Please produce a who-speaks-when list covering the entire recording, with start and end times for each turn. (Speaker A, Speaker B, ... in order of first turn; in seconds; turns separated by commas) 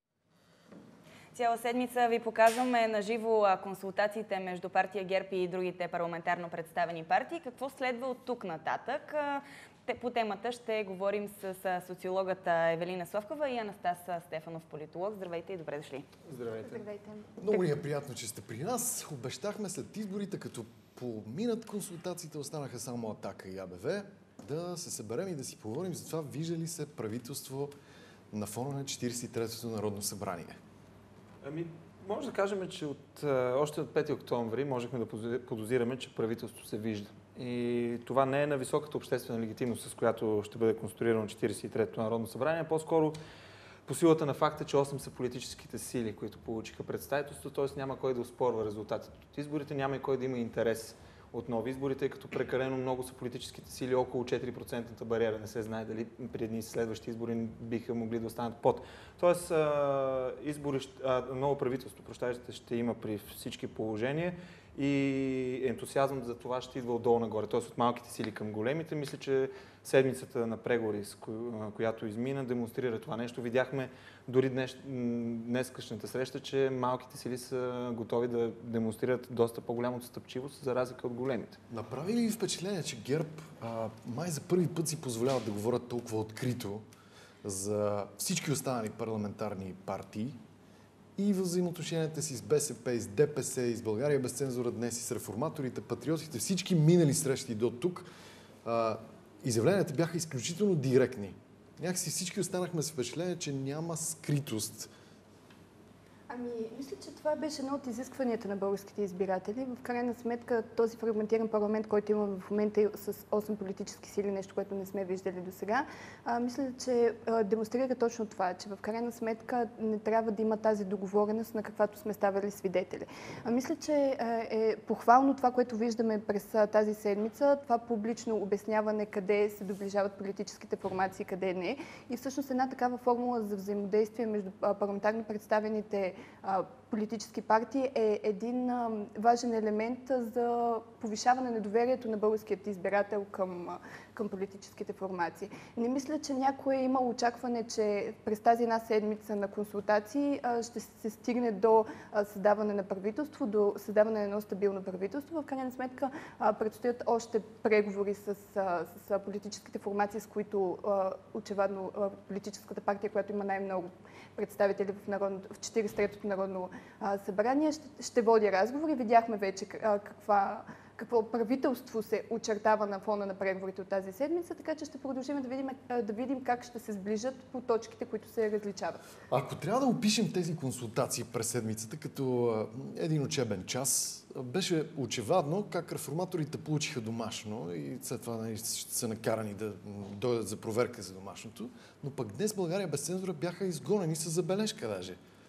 Speaker A: 1.3-16.1, Speaker B: 16.2-16.8, Speaker C: 16.5-17.7, Speaker D: 17.4-27.7, Speaker D: 28.3-30.6, Speaker B: 31.4-43.2, Speaker B: 43.9-81.6, Speaker D: 81.7-86.8, Speaker D: 87.4-90.4, Speaker D: 91.2-98.1, Speaker D: 98.6-104.9, Speaker C: 106.3-179.0, Speaker D: 179.3-195.2